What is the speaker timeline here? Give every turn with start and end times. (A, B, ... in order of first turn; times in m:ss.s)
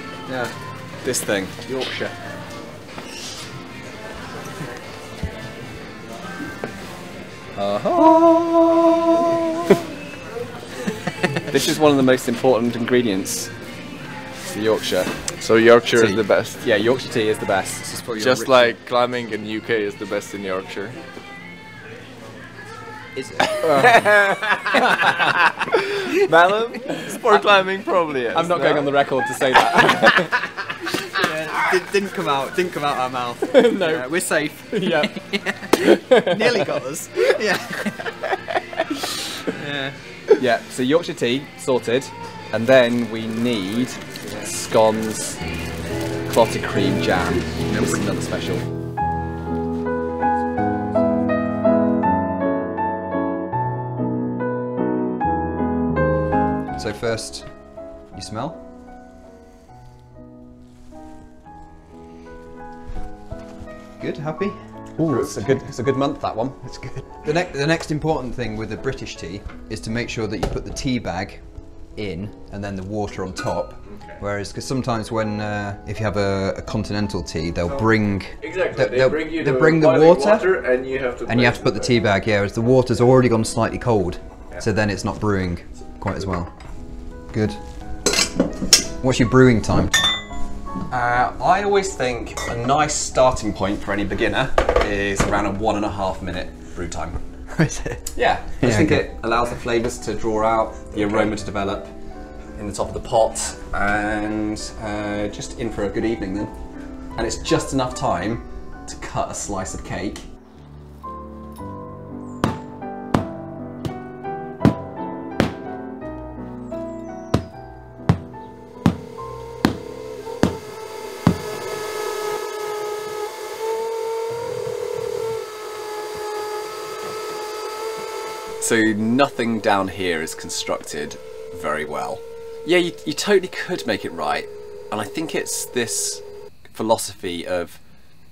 0:00.3-0:00.5 A
0:01.0-0:01.6 B
0:01.6-0:02.1 A
0:07.6-0:08.3 A
0:08.1-0:08.8 B
0:11.5-0:13.5 B
0:14.5-0:15.2 B
0:15.4-0:16.6 C
0:15.9-0:17.8 B
0:17.8-0:18.8 A
0:18.2-0:21.0 C
0:23.1-0:24.1 A
0:23.6-0:29.0 C
0:25.0-0:25.3 A
0:28.3-0:30.4 B
0:29.7-0:30.1 C
0:31.1-0:38.2 A
0:39.5-0:40.0 A
0:40.4-0:45.4 B
0:44.0-0:44.3 A
0:46.2-0:48.7 B
0:56.8-0:58.6 A
1:04.0-1:04.6 A
1:05.0-1:06.7 B
1:05.0-1:05.3 C
1:06.6-1:20.5 A
1:13.8-1:14.2 C
1:18.4-1:21.9 C
1:21.3-1:26.5 A
1:27.3-1:27.6 A
1:29.0-1:29.9 A
1:30.9-1:37.2 B
1:37.5-1:38.0 A
1:38.1-1:41.9 B
1:38.6-1:39.0 A
1:42.5-1:46.5 B
1:47.1-1:50.3 B
2:08.6-2:17.8 B